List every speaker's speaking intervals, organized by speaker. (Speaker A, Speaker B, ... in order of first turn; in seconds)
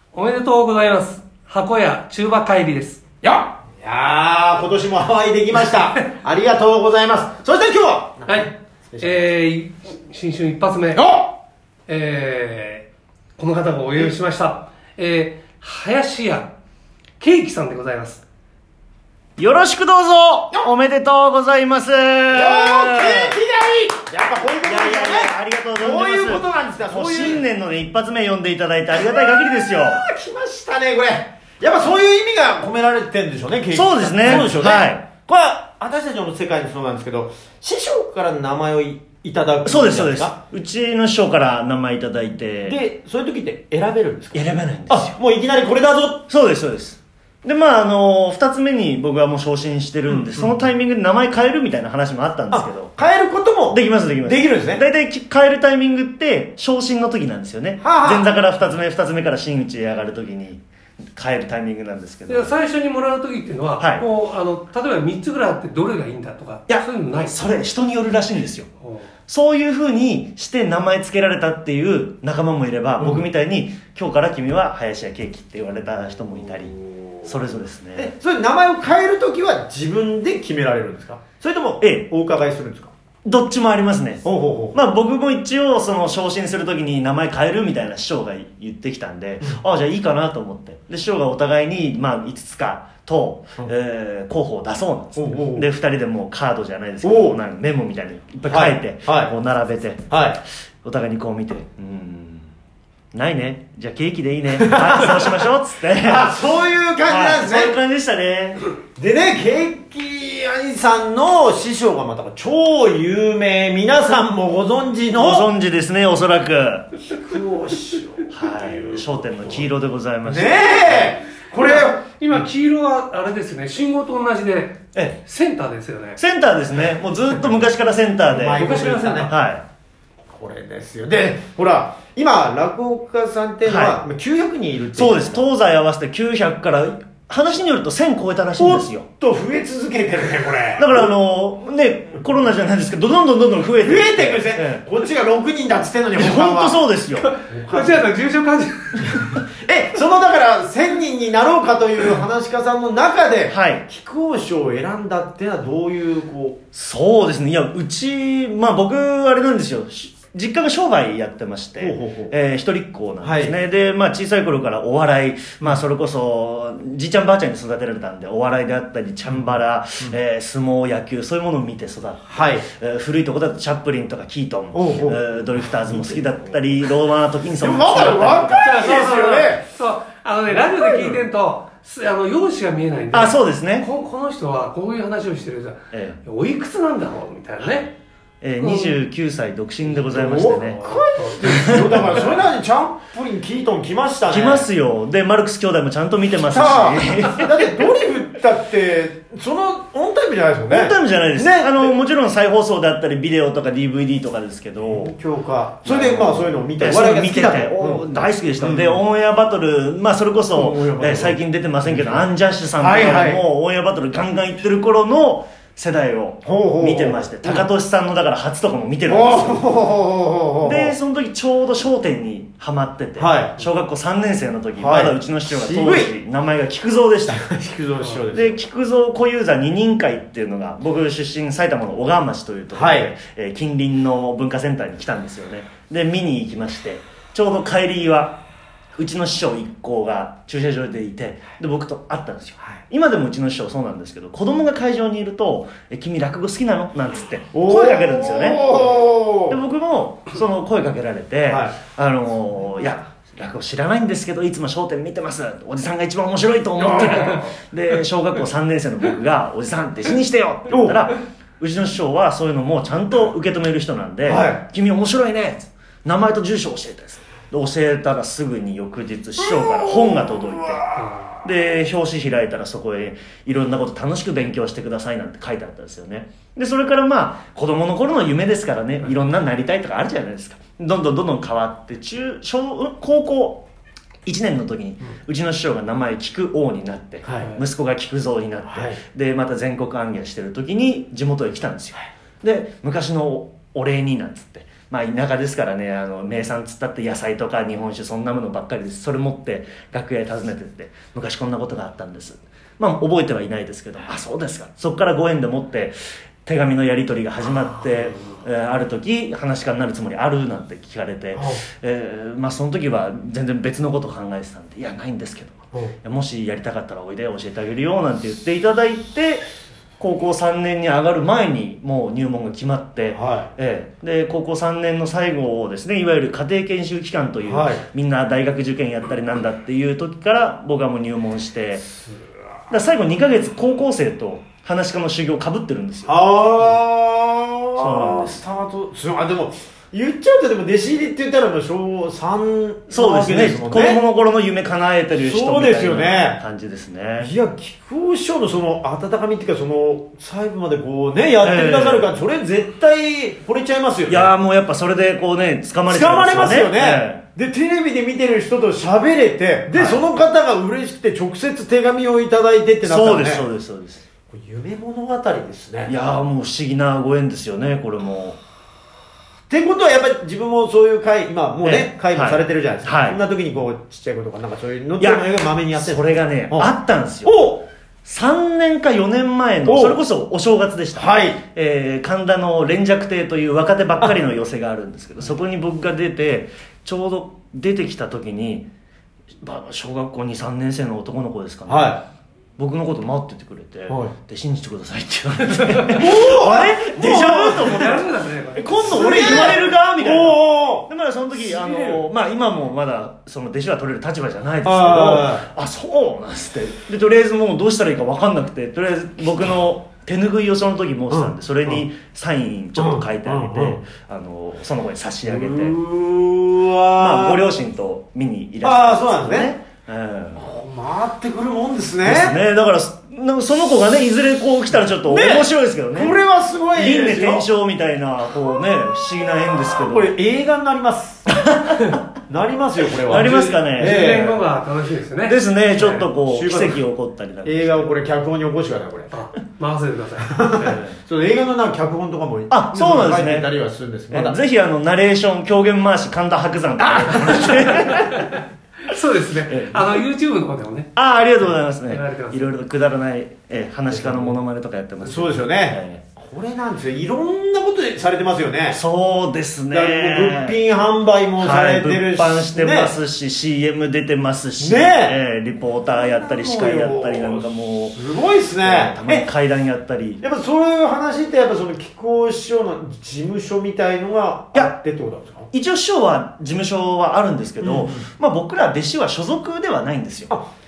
Speaker A: 0.1-3.0, 8.3-11.0, 11.9-16.5, 17.2-18.2, 62.3-67.4, 68.8-69.1, 121.6-126.2, 128.5-129.4, 147.7-149.3, 178.6-187.9, 188.6-189.0, 190.0-192.2, 270.9-271.2, 397.0-399.2, 401.5-402.0, 433.1-436.1, 439.1-440.8, 448.9-452.4
Speaker B: 3.2-9.3, 10.9-11.3, 22.3-27.4, 29.0-40.3, 42.6-46.2, 50.1-50.5, 52.5-54.8, 57.8-58.3, 78.0-82.9, 84.2-84.8, 95.2-95.7, 97.0-97.4, 98.4-99.3, 100.1-100.4, 104.6-105.4, 106.0-107.7, 109.0-115.5, 117.1-119.6, 120.2-122.0, 128.3-129.3, 130.2-135.4, 138.6-141.0, 143.8-146.8, 147.5-148.1, 149.1-156.6, 161.8-162.3, 163.2-163.5, 172.3-172.6, 174.7-175.2, 177.6-179.6, 180.7-181.2, 190.1-194.7, 196.4-201.9, 204.8-209.0, 210.5-212.3, 212.8-213.4, 216.4-217.7, 219.1-220.9, 223.2-223.6, 224.8-226.1, 227.3-228.6, 232.7-233.1, 247.5-249.6, 251.5-251.8, 256.8-257.5, 260.7-261.0, 264.2-264.6, 269.5-271.0, 287.2-287.5, 288.7-289.0, 311.3-311.6, 323.1-323.5, 327.4-327.8, 336.1-344.0, 345.2-346.4, 347.2-354.3, 355.9-363.4, 364.3-365.9, 369.5-376.7, 377.2-377.6, 379.6-380.0, 380.9-381.4, 391.7-392.0, 395.9-397.8, 398.8-400.9, 404.6-405.4, 411.1-411.8, 412.8-413.8, 415.2-417.4, 418.6-419.5, 420.4-422.4, 425.0-427.5, 429.8-431.4, 432.3-434.3, 436.2-436.8, 437.4-439.1, 440.3-444.4, 446.8-448.0, 453.9-454.4, 455.0-458.8, 459.7-462.9, 464.6-465.2, 465.9-469.3, 470.2-475.5, 477.6-478.0
Speaker C: 19.4-23.4, 24.6-30.0, 33.7-35.0, 39.6-42.8, 44.3-45.1, 46.3-52.9, 53.7-60.6, 61.1-62.5, 63.8-64.0, 66.7-68.7, 69.3-78.1, 81.8-82.1, 83.2-100.1, 100.8-102.5, 103.1-106.3, 107.1-108.6, 115.1-117.0, 118.3-121.2, 126.2-128.7, 129.3-129.6, 133.7-134.0, 134.9-139.1, 140.8-144.8, 146.1-147.3, 153.5-153.8, 156.7-179.0, 183.1-183.9, 185.9-186.2, 188.4-190.8, 191.4-192.2, 194.3-197.5, 200.7-205.1, 205.8-219.7, 220.6-227.4, 228.3-238.4, 239.0-270.8, 271.4-283.7, 284.2-319.4, 320.0-331.8, 332.7-336.1, 337.8-338.4, 342.9-347.3, 351.4-352.1, 354.1-357.2, 359.7-360.0, 362.8-364.0, 365.9-368.4, 371.6-373.2, 375.0-377.5, 378.0-388.7, 389.4-392.0, 392.6-398.0, 398.6-415.8, 417.0-420.4, 422.0-426.1, 426.7-430.1, 431.3-432.0, 433.0-434.4, 435.2-437.9, 440.6-441.0, 442.5-443.5, 444.1-448.3, 449.5-449.9, 450.9-456.0, 458.7-460.6, 461.4-468.0, 468.6-470.2, 475.5-480.3